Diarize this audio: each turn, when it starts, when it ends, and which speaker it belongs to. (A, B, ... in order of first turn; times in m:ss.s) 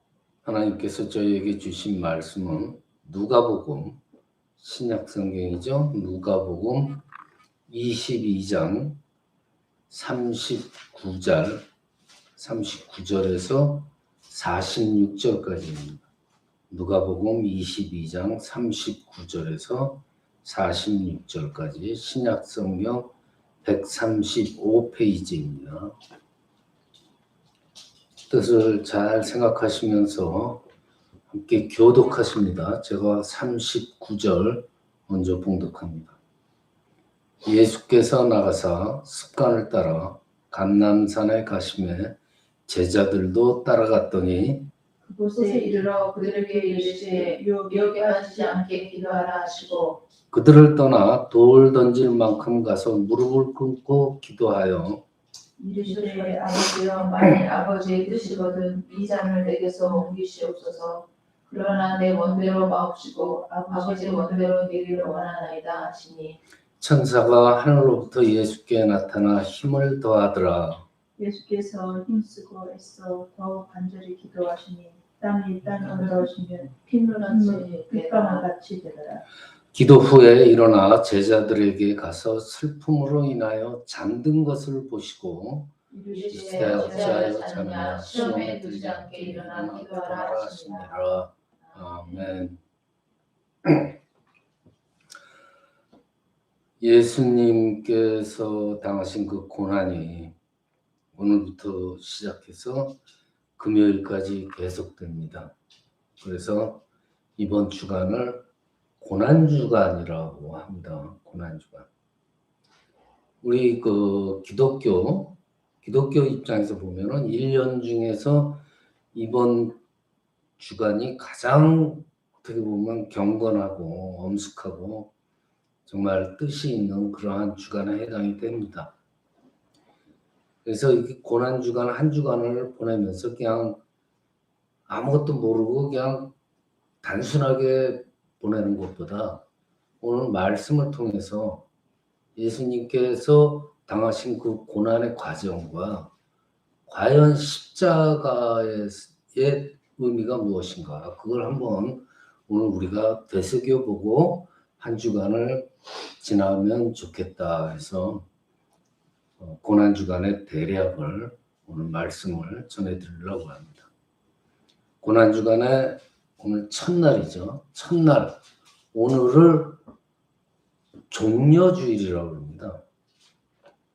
0:00.4-0:04.0 A
0:04.6-0:07.0 A
0:07.7-0:09.0 A
0:09.9-0:11.6 A
0:12.4-0:16.0 A
0:16.7-0:23.1 A
0:23.6-0:26.0 A
0:28.3-0:30.6 A
0:31.3-0:36.2 A
0:37.4-0:42.2 A
0:42.7-0:44.7 A
0:45.0-0:49.3 B
0:45.3-0:50.0 C
0:50.3-0:55.0 A
0:55.6-1:00.1 B
0:55.8-1:06.4 C
1:01.9-1:05.3 B
1:06.8-1:10.8 A
1:11.2-1:16.7 B
1:15.9-1:18.5 C
1:17.3-1:19.2 B
1:19.7-1:25.7 A
1:25.9-1:27.2 B
1:26.1-1:31.0 C
1:26.3-1:32.6 A
1:28.1-1:28.4 B
1:33.6-1:33.9 A
1:36.8-1:40.3 A
1:41.1-1:43.0 A
1:43.6-1:45.5 A
1:46.2-1:46.8 A
1:47.4-1:48.4 A
1:49.0-1:51.9 A
1:53.4-1:58.6 A
1:59.1-1:59.8 A
2:00.6-2:05.1 A
2:05.9-2:08.9 A
2:10.6-2:13.8 A
2:14.9-2:16.3 A
2:17.0-2:19.4 A
2:20.0-2:21.6 A
2:22.4-2:26.1 A
2:26.9-2:38.2 A
2:39.4-2:43.9 A
2:45.0-2:48.4 A
2:48.9-2:49.8 A
2:51.1-2:52.8 A